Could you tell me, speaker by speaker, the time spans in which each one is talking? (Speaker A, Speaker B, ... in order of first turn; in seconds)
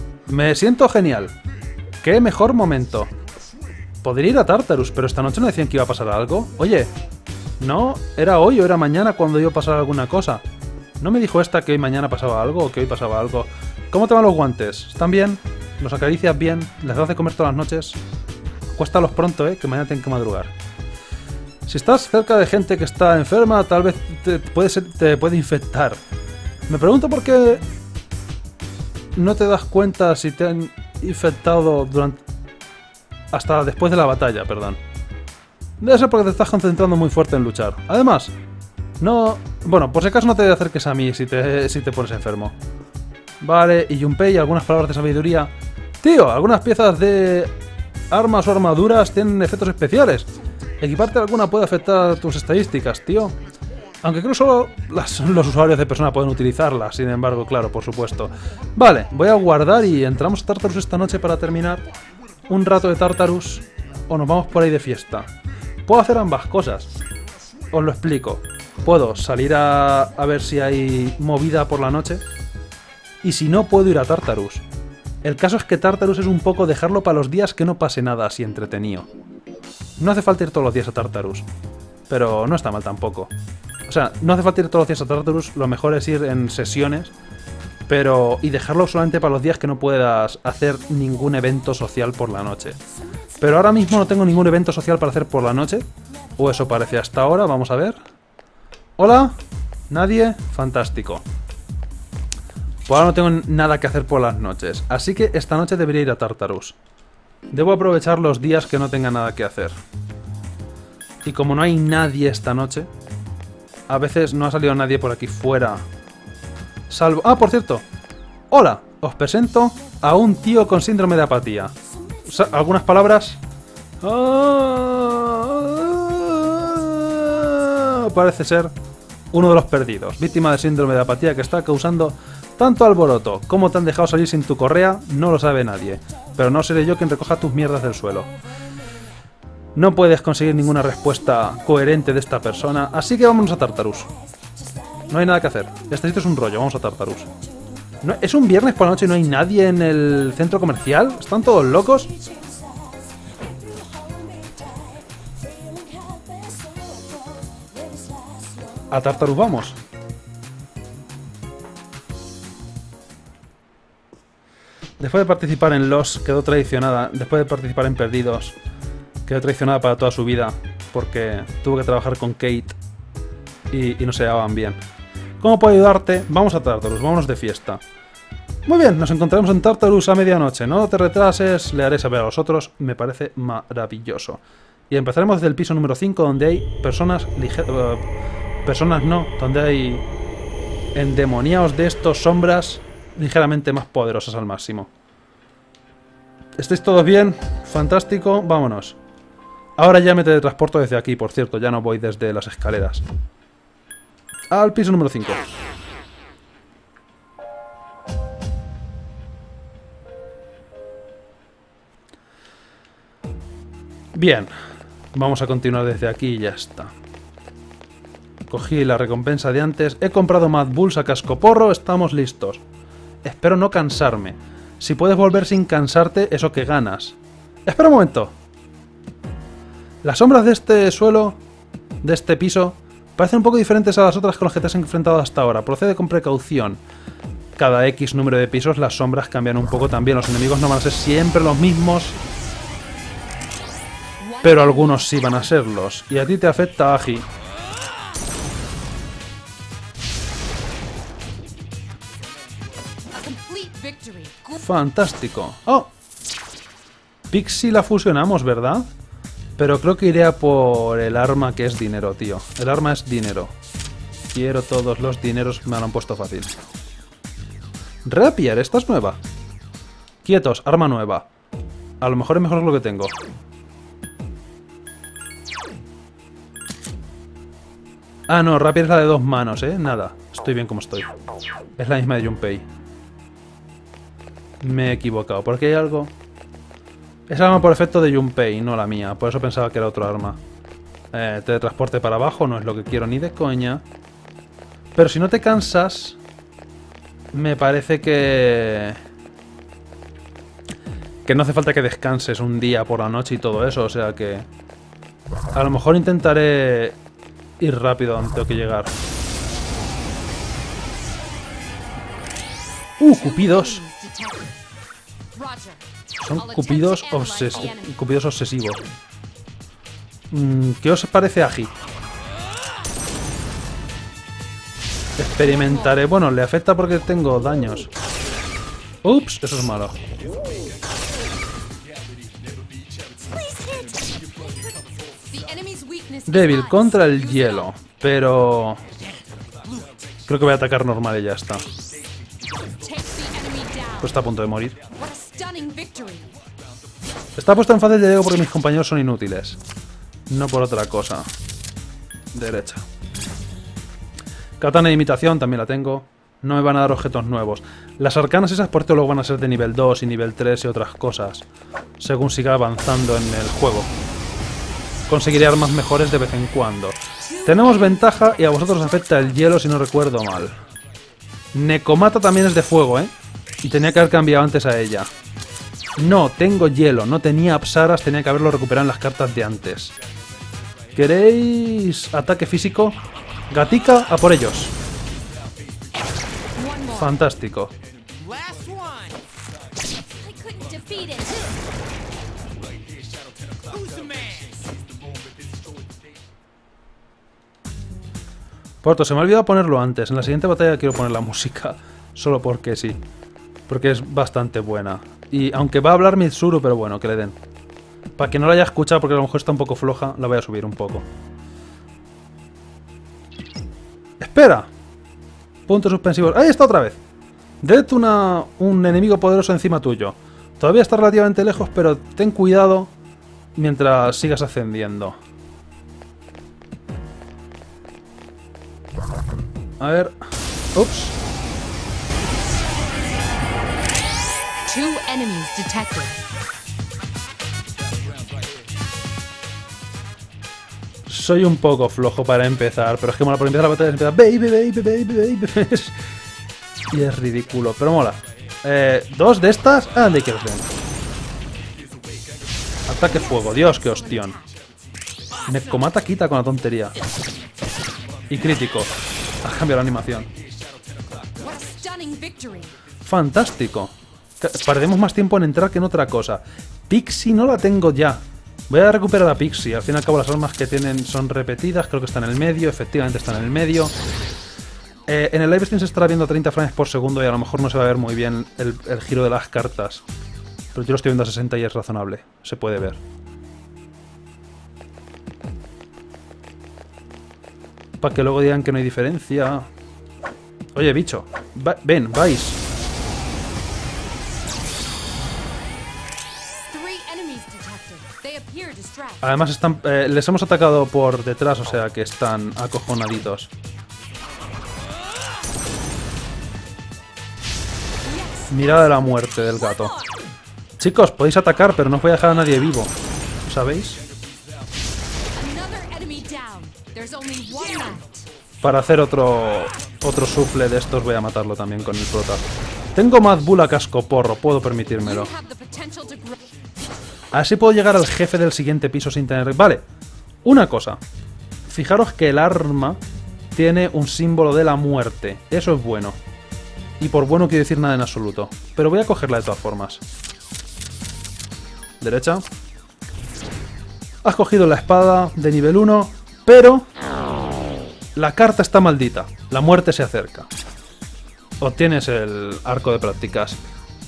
Speaker A: 0.3-1.3, 2.0-3.1, 4.0-6.9, 7.6-10.4, 11.0-18.0, 18.8-20.5, 21.7-26.0, 26.7-27.6, 29.1-32.2, 33.3-34.8, 35.8-38.3, 39.0-42.5, 43.4-45.5, 46.0-47.5, 48.1-50.3, 50.8-53.4, 54.0-61.8, 62.5-65.3, 65.9-66.9, 67.7-72.2, 73.2-74.6, 75.2-79.1, 80.0-81.5, 82.1-83.3, 83.9-87.1, 87.9-92.8, 93.4-95.8, 96.4-98.0, 99.0-99.4, 99.9-101.2, 102.9-106.8, 107.5-109.7, 111.2-112.9, 113.9-115.8, 116.9-117.8, 118.5-123.4, 124.0-128.7, 129.3-138.3, 139.7-144.1, 145.1-147.3, 148.0-152.1, 158.9-159.8, 165.0-168.6, 169.3-172.8, 173.7-174.8, 175.4-177.8, 178.7-188.0, 188.7-190.0, 190.9-194.9, 196.6-199.0, 199.8-203.0, 204.5-205.5, 214.1-214.5, 215.1-216.9, 218.5-222.6, 223.2-228.3, 230.0-231.4, 232.0-236.8, 237.6-242.2, 244.4-247.2, 254.6-255.9, 257.3-258.9, 259.6-263.5, 264.3-266.5, 268.0-269.2, 270.2-271.3, 272.0-273.1, 278.3-281.1, 281.8-282.6, 284.6-286.1, 287.3-290.4, 291.1-293.8, 294.9-296.2, 297.3-299.0, 301.2-304.4, 305.5-307.0, 307.6-308.9, 313.0-313.8, 316.2-318.8, 320.3-321.7, 325.2-327.9, 329.0-330.0, 336.3-338.8, 340.3-341.7, 344.0-344.8, 347.4-349.6, 350.3-351.3, 352.3-352.8, 354.6-361.5, 362.0-363.9, 365.1-370.5, 371.5-373.1, 373.6-375.1, 376.0-379.9, 380.9-384.7, 386.9-387.7, 398.8-403.0, 403.7-407.4, 408.2-411.1, 414.2-414.7, 415.7-417.0, 417.6-422.9, 423.6-425.1, 429.8-430.1, 430.7-431.2, 441.1-446.0, 446.9-450.7, 452.9-454.4, 455.5-457.0, 458.3-460.3, 463.0-473.9, 475.1-480.0, 480.7-483.0, 488.0-489.7, 490.8-492.6, 499.2-503.5, 508.5-509.9, 510.8-512.9, 513.5-514.0, 518.6-522.4, 522.9-525.3, 527.3-529.8, 530.4-531.0, 531.7-533.0, 533.5-536.2, 537.0-540.0, 542.0-542.4, 544.2-546.9, 548.1-550.5, 551.6-553.6
Speaker B: 244.2-245.4, 253.1-254.6, 313.0-314.6, 315.3-317.9, 325.4-326.0, 333.1-337.7, 342.6-344.2, 344.8-346.3, 367.3-369.4, 386.5-387.2, 388.2-389.1, 390.1-391.5, 393.9-394.5, 434.6-436.2, 453.0-454.6, 461.2-462.7, 496.6-499.4, 508.0-510.1, 515.3-518.3, 525.0-526.5